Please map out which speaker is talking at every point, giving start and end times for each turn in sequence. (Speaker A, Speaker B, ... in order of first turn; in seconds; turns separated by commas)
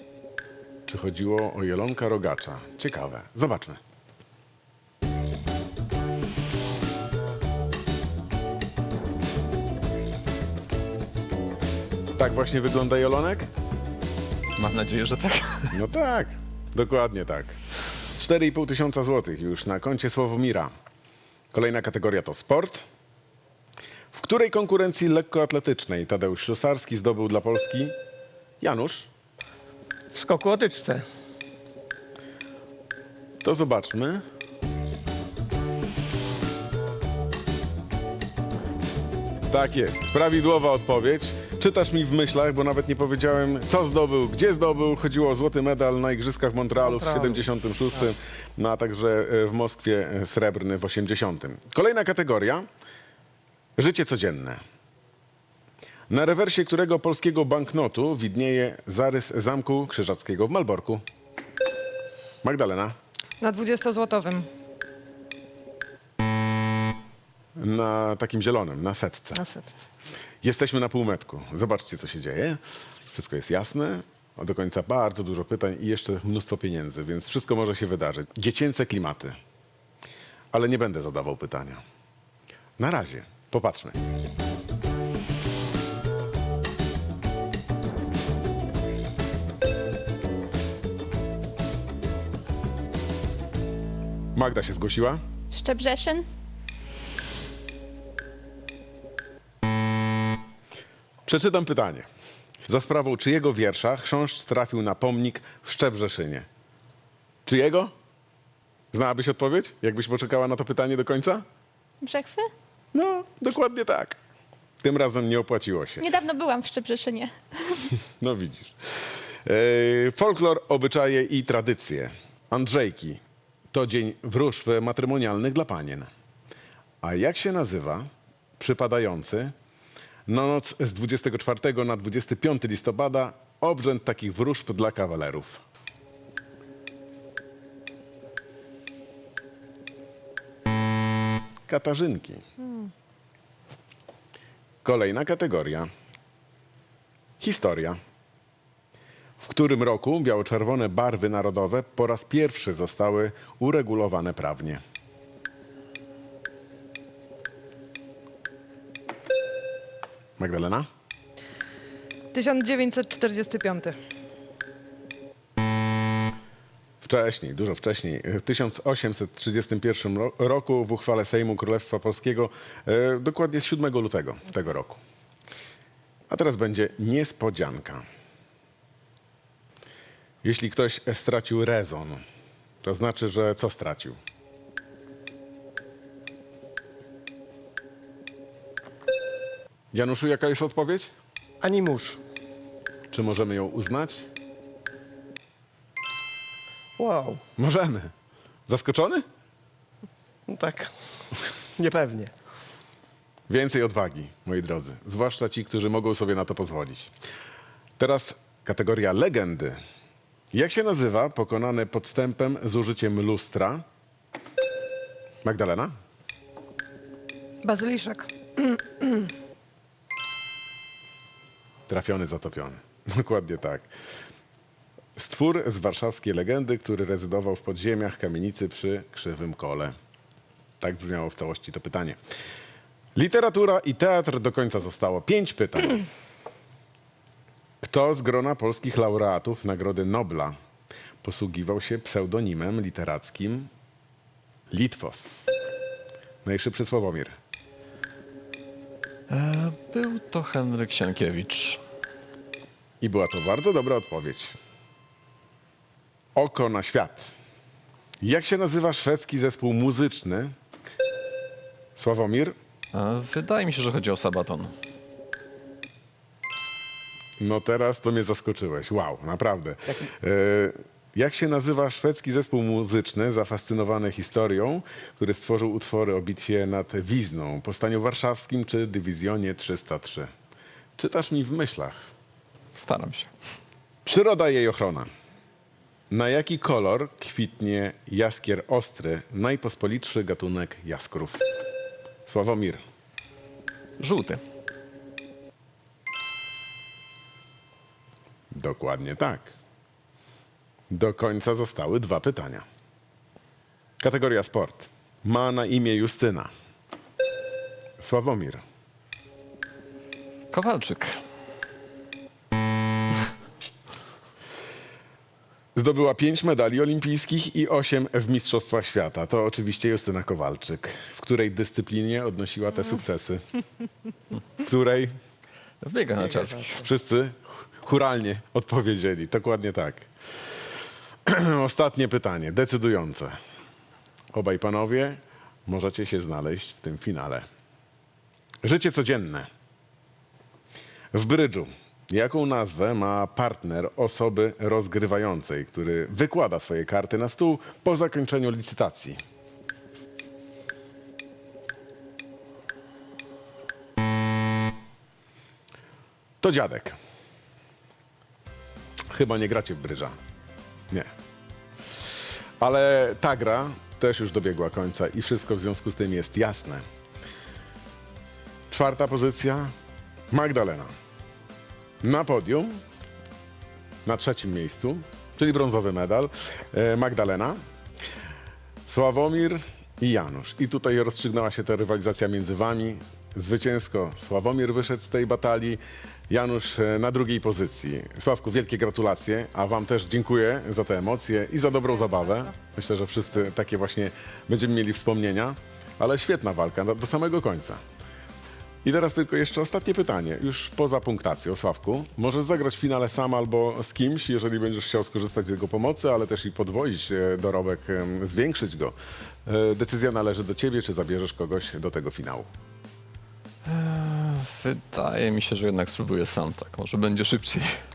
Speaker A: 0.9-3.8, Speaker A: 12.2-13.5, Speaker B: 14.6-15.8, Speaker A: 15.7-17.6, Speaker A: 18.2-20.7, Speaker A: 21.5-22.8, Speaker A: 24.1-27.9, Speaker A: 28.6-29.1, Speaker C: 30.1-31.1, Speaker A: 33.4-34.2, Speaker A: 39.5-52.7, Speaker C: 46.8-47.4, Speaker A: 53.8-54.6, Speaker A: 56.1-61.0, Speaker A: 62.4-63.0, Speaker D: 63.4-64.5, Speaker A: 67.6-69.4, Speaker D: 69.3-69.8, Speaker A: 70.4-72.6, Speaker A: 73.1-79.4, Speaker A: 80.5-81.8, Speaker A: 82.8-84.0, Speaker A: 94.3-95.2, Speaker E: 95.5-96.2, Speaker A: 101.3-102.1, Speaker A: 102.7-106.5, Speaker A: 107.5-107.9, Speaker A: 108.9-111.5, Speaker E: 112.0-112.5, Speaker A: 112.9-114.2, Speaker A: 114.8-116.0, Speaker E: 116.0-117.9, Speaker A: 118.2-118.8, Speaker A: 119.5-123.2, Speaker A: 123.7-126.1, Speaker A: 127.0-129.5, Speaker A: 130.3-135.6, Speaker A: 141.7-142.4, Speaker A: 144.8-145.9, Speaker A: 147.4-148.0, Speaker A: 149.4-154.8, Speaker A: 160.4-160.9, Speaker D: 162.3-164.0, Speaker A: 167.0-175.0, Speaker A: 176.3-178.0, Speaker A: 180.4-182.2, Speaker A: 182.8-184.2, Speaker A: 189.9-191.1, Speaker C: 191.6-192.2, Speaker A: 193.1-194.3, Speaker C: 197.0-197.4, Speaker A: 197.6-198.1, Speaker A: 198.7-199.2, Speaker C: 200.5-200.9, Speaker C: 201.8-202.3, Speaker A: 203.5-207.1, Speaker A: 208.0-209.8, Speaker A: 210.5-213.8, Speaker A: 215.4-215.9, Speaker D: 217.6-219.3, Speaker A: 221.9-223.9, Speaker A: 225.2-229.9, Speaker A: 230.8-232.2, Speaker A: 233.2-236.1, Speaker A: 237.8-240.6, Speaker A: 241.2-243.7, Speaker A: 244.7-245.5, Speaker A: 246.4-247.3, Speaker B: 249.3-251.8, Speaker A: 253.0-254.6, Speaker A: 256.4-257.3, Speaker A: 258.2-260.5, Speaker A: 262.0-262.6, Speaker B: 262.9-264.7, Speaker A: 267.4-280.3, Speaker A: 281.0-282.1, Speaker B: 282.8-283.3, Speaker A: 284.1-285.1, Speaker A: 286.1-291.4, Speaker A: 292.3-292.8, Speaker B: 294.0-294.4, Speaker A: 298.5-299.5, Speaker A: 300.9-302.6, Speaker A: 304.0-306.5, Speaker A: 308.0-308.6, Speaker B: 310.5-311.2, Speaker A: 315.8-323.4, Speaker A: 324.6-325.1, Speaker B: 325.8-326.8, Speaker A: 326.7-330.1, Speaker A: 331.3-333.4, Speaker A: 334.3-337.5, Speaker A: 338.6-339.5, Speaker A: 341.1-349.2, Speaker A: 356.4-357.0, Speaker A: 359.1-360.2, Speaker A: 362.6-366.8, Speaker A: 368.7-369.7, Speaker A: 370.3-370.9, Speaker A: 372.0-372.8, Speaker A: 374.1-377.6, Speaker A: 378.9-397.8, Speaker A: 398.8-412.5, Speaker B: 413.6-417.8